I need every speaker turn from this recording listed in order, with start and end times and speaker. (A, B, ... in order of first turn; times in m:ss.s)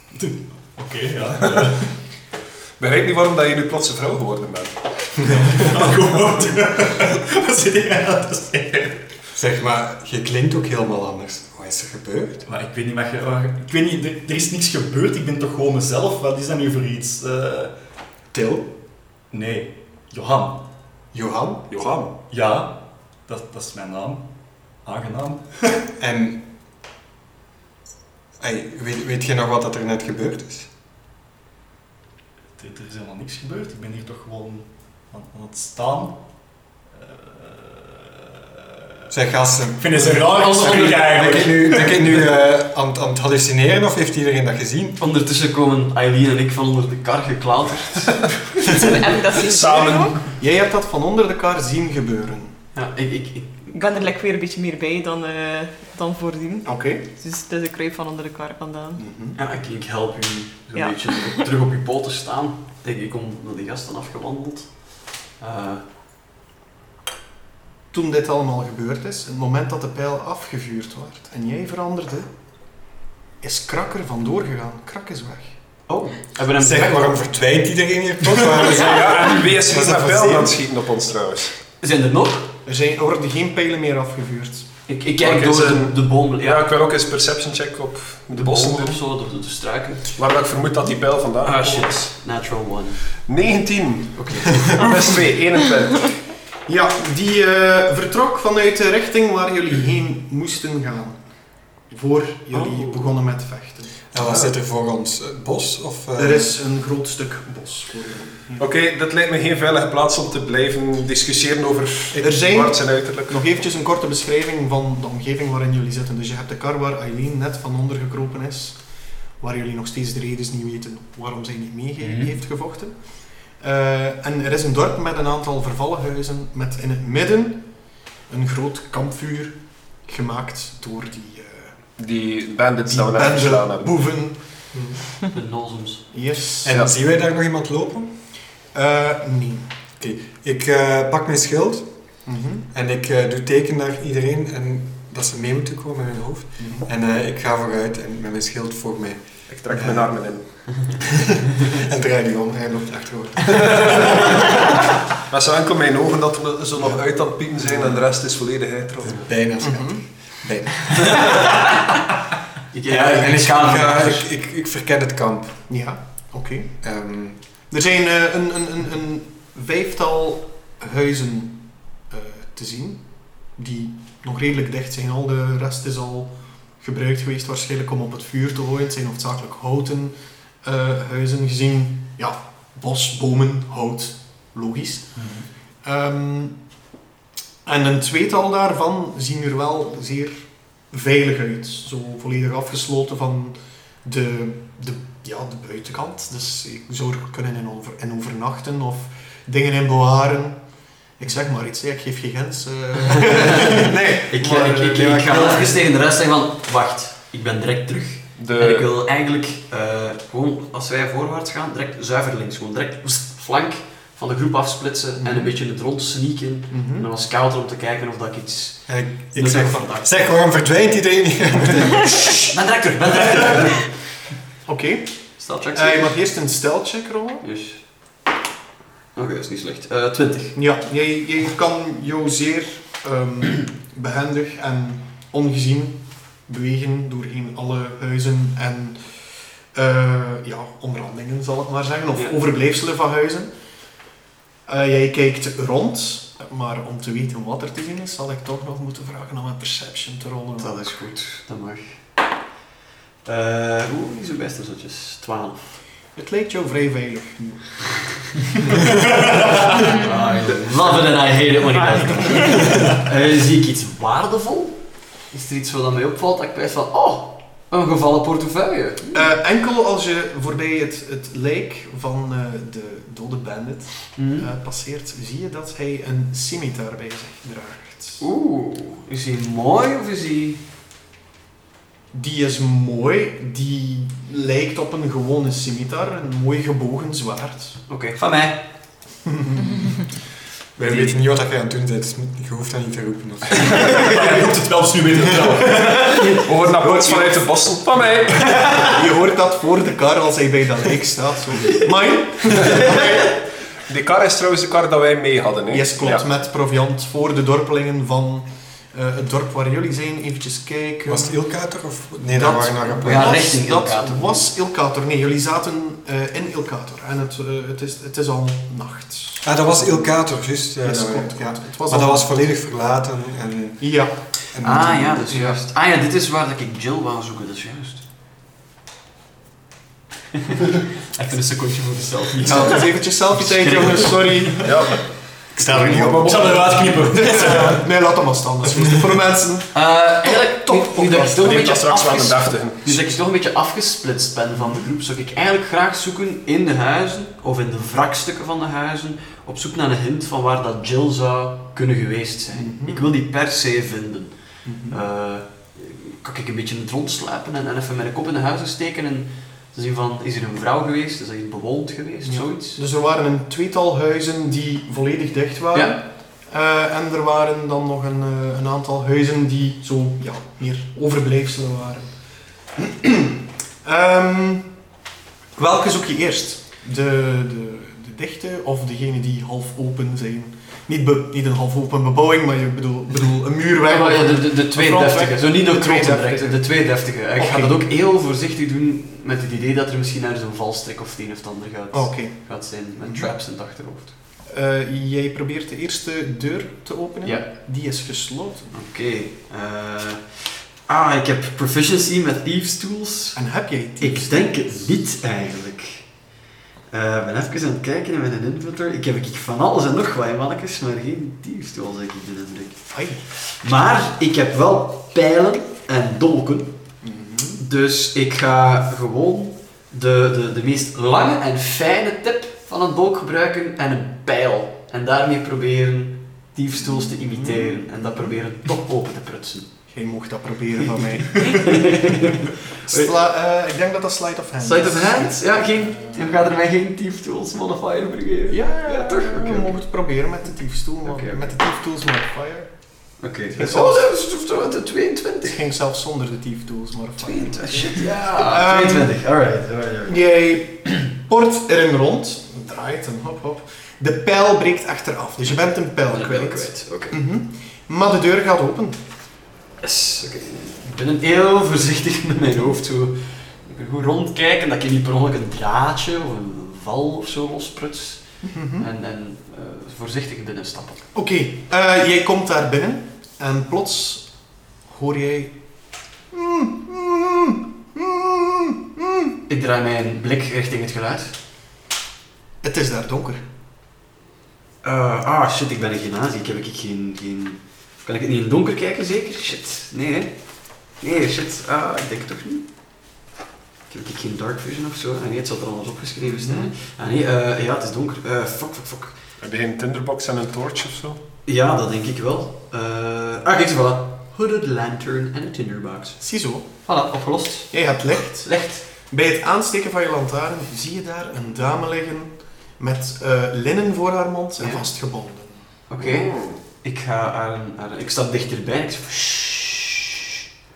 0:00.1-0:01.9 A
0:01.4-0:01.7 B
0:02.8-0:05.4 B
0:05.2-0:09.0 A
0:09.3-0:12.4 C
0:12.4-0:17.8 A
0:19.3-0:20.6 A
0:21.1-0:21.7 C
0:21.7-0:22.2 B
0:22.3-0:24.3 A
0:24.8-0:25.9 A
0:26.0-0:26.4 C
0:28.4-0:30.7 C
0:32.6-0:36.2 A
0:37.0-0:38.8 A
0:39.1-0:45.0 C
0:39.8-0:42.1 A
0:40.2-0:41.9 D
0:45.0-0:48.3 D
0:48.7-0:50.2 E
0:49.4-0:50.2 B
0:50.4-0:52.6 F
0:52.8-0:53.9 D
0:53.7-0:59.0 E
0:56.6-0:57.0 F
0:59.0-0:59.4 F
0:59.4-1:05.8 D
1:00.8-1:01.1 E
1:07.9-1:12.3 F
1:13.4-1:15.6 F
1:15.9-1:17.3 D
1:16.6-1:20.6 C
1:18.4-1:19.5 D
1:18.6-1:21.5 B
1:21.8-1:22.5 D
1:22.7-1:24.7 F
1:24.9-1:26.7 D
1:25.2-1:29.0 B
1:28.3-1:30.2 D
1:30.2-1:32.1 B
1:31.4-1:33.1 D
1:33.3-1:36.2 B
1:34.2-1:35.1 D
1:36.7-1:41.2 F
1:41.9-1:44.0 F
1:44.1-1:46.5 C
1:46.2-1:48.6 F
1:48.6-1:53.4 B
1:52.2-1:58.8 F
1:59.4-2:02.9 F
2:02.0-2:02.3 D
2:03.6-2:07.6 F
2:08.3-2:11.7 F
2:12.0-2:14.0 B
2:12.9-2:14.4 F
2:15.3-2:16.0 D
2:16.1-2:16.8 F
2:16.6-2:18.1 C
2:18.7-2:19.7 F
2:20.0-2:21.9 C
2:22.3-2:22.7 F
2:22.7-2:30.1 C
2:29.5-2:31.0 B
2:31.2-2:34.6 C
2:33.5-2:34.4 B
2:35.3-2:39.3 B
2:39.2-2:41.4 C
2:39.6-2:40.0 F
2:41.2-2:41.9 D
2:42.7-2:44.3 D
2:42.9-2:45.6 C
2:45.7-2:46.7 F
2:46.8-2:47.4 C
2:47.7-2:53.0 F
2:53.6-3:05.2 F
3:05.2-3:05.5 A
3:05.8-3:06.6 F
3:07.6-3:20.6 F
3:21.2-3:25.2 F
3:23.2-3:40.2 D
3:23.7-3:25.7 C
3:28.4-3:28.9 B
3:35.2-3:35.5 F
3:36.7-3:37.1 F
3:38.9-3:42.4 C
3:42.4-3:43.9 D
3:44.7-3:45.1 F
3:45.4-3:46.2 D
3:45.7-3:47.5 F
3:47.4-3:47.8 D
3:49.2-3:50.6 D
3:50.6-3:59.2 F
3:59.7-4:03.5 F
4:04.7-4:10.8 F
4:10.6-4:12.0 D
4:13.2-4:15.8 D
4:16.2-4:18.2 F
4:19.1-4:19.6 A
4:19.8-4:24.8 D
4:22.7-4:23.0 A
4:25.3-4:29.3 D
4:29.1-4:38.2 F
4:34.2-4:34.5 D
4:38.2-4:40.6 D
4:42.1-4:47.8 F
4:47.9-4:48.6 D
4:49.3-4:49.8 F
4:50.8-4:54.2 C
4:53.6-4:56.4 A
4:55.2-4:55.6 C
4:56.0-4:56.4 D
4:56.3-4:58.6 B
4:56.6-4:57.5 F
4:58.4-4:58.9 D
4:58.7-5:03.4 F
5:03.9-5:06.2 B
5:05.7-5:11.3 F
5:11.1-5:13.5 C
5:12.3-5:20.1 F
5:13.0-5:14.5 D
5:19.4-5:23.9 C
5:20.8-5:22.4 F
5:23.8-5:24.1 F
5:24.5-5:25.4 C
5:24.6-5:28.0 D
5:31.1-5:34.7 D
5:32.5-5:34.8 F
5:34.6-5:35.0 B
5:35.6-5:37.0 B
5:35.6-5:36.4 C
5:35.7-5:36.3 F
5:36.2-5:37.8 A
5:37.1-5:41.7 F
5:39.7-5:54.3 D
5:41.4-5:43.2 B
5:52.5-5:53.1 F
5:54.6-5:55.0 F
5:54.9-6:02.8 D
6:02.2-6:12.1 F
6:12.8-6:14.7 F
6:15.6-6:26.6 F
6:23.9-6:34.1 D
6:27.4-6:27.8 F
6:31.9-6:32.4 F
6:33.0-6:33.3 F
6:34.5-6:38.8 F
6:38.7-6:43.4 D
6:43.4-6:44.7 F
6:44.0-6:46.0 D
6:46.9-6:52.8 D
6:52.9-6:53.2 F
6:53.6-6:56.7 D
6:57.0-6:57.6 F
6:57.6-7:09.7 D
7:06.9-7:08.4 F
7:09.9-7:16.3 F
7:11.4-7:13.1 D
7:14.6-7:19.8 D
7:18.5-7:22.7 F
7:21.1-7:21.6 D
7:23.2-7:25.6 D
7:23.5-7:24.1 F
7:25.4-7:29.1 F
7:27.2-7:30.2 D
7:30.1-7:39.0 F
7:36.1-7:37.2 D
7:39.8-7:51.1 D
7:48.4-7:48.9 F
7:51.1-7:54.3 F
7:54.9-7:55.6 F
7:56.3-7:59.4 F
7:59.5-8:01.3 D
8:02.6-8:03.4 F
8:04.8-8:10.4 D
8:11.0-8:12.7 D
8:13.9-8:19.2 D
8:16.2-8:16.7 F
8:19.4-8:21.2 B
8:21.5-8:26.2 D
8:26.2-8:26.7 F
8:26.8-8:28.8 D
8:27.7-8:35.6 F
8:34.6-8:34.9 D
8:35.9-8:40.3 D
8:36.0-8:36.6 B